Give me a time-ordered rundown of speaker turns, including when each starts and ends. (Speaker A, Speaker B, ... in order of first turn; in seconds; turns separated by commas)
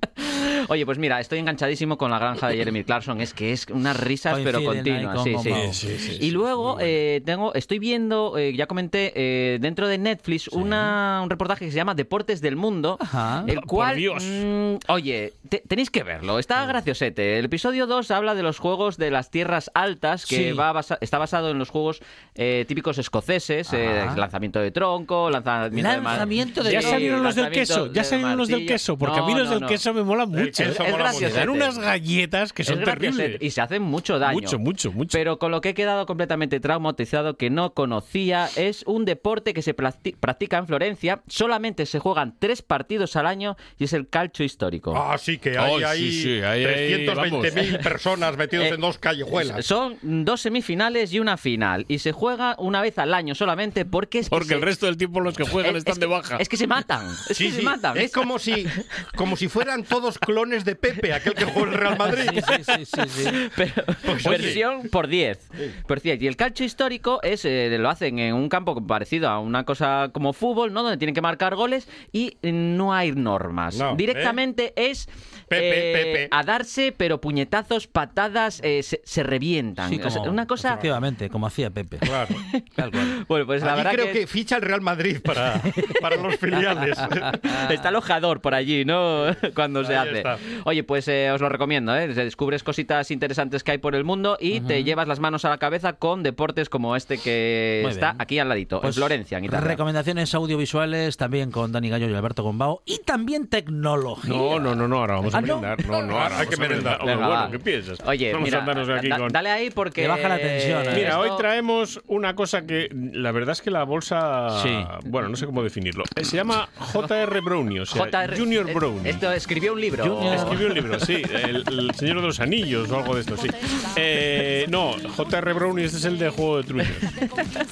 Speaker A: 0.2-29.8, Speaker B: 4.3-5.8, Speaker C: 5.5-7.0, Speaker B: 10.5-10.9, Speaker B: 13.0-13.5, Speaker C: 13.5-14.4, Speaker B: 20.3-20.6, Speaker B: 23.7-24.2, Speaker B: 25.7-27.2, Speaker C: 26.2-33.4, Speaker D: 30.3-31.6, Speaker A: 30.6-31.8, Speaker A: 32.6-34.6, Speaker C: 34.2-35.2, Speaker A: 35.1-45.0, Speaker D: 44.9-49.6, Speaker C: 45.5-47.9, Speaker A: 48.5-54.7, Speaker C: 54.3-56.4, Speaker A: 55.5-59.2, Speaker C: 57.3-57.8, Speaker D: 57.9-62.6, Speaker B: 62.1-63.4, Speaker A: 63.1-80.8, Speaker D: 64.0-64.9, Speaker C: 64.3-64.6, Speaker D: 73.7-74.4, Speaker D: 75.5-76.3, Speaker B: 79.8-82.1, Speaker D: 82.0-82.4, Speaker A: 82.5-84.2, Speaker B: 82.8-83.1, Speaker D: 83.6-87.6, Speaker A: 87.7-99.8, Speaker D: 89.8-90.4, Speaker B: 94.5-94.9, Speaker B: 97.8-98.2, Speaker B: 98.8-106.3, Speaker C: 104.2-109.4, Speaker D: 106.1-107.3, Speaker A: 106.8-111.5, Speaker B: 110.0-111.2, Speaker C: 110.9-119.2, Speaker B: 114.5-114.9, Speaker A: 116.8-117.1, Speaker A: 117.9-121.1, Speaker B: 120.0-120.8, Speaker C: 120.2-127.1, Speaker A: 126.8-127.5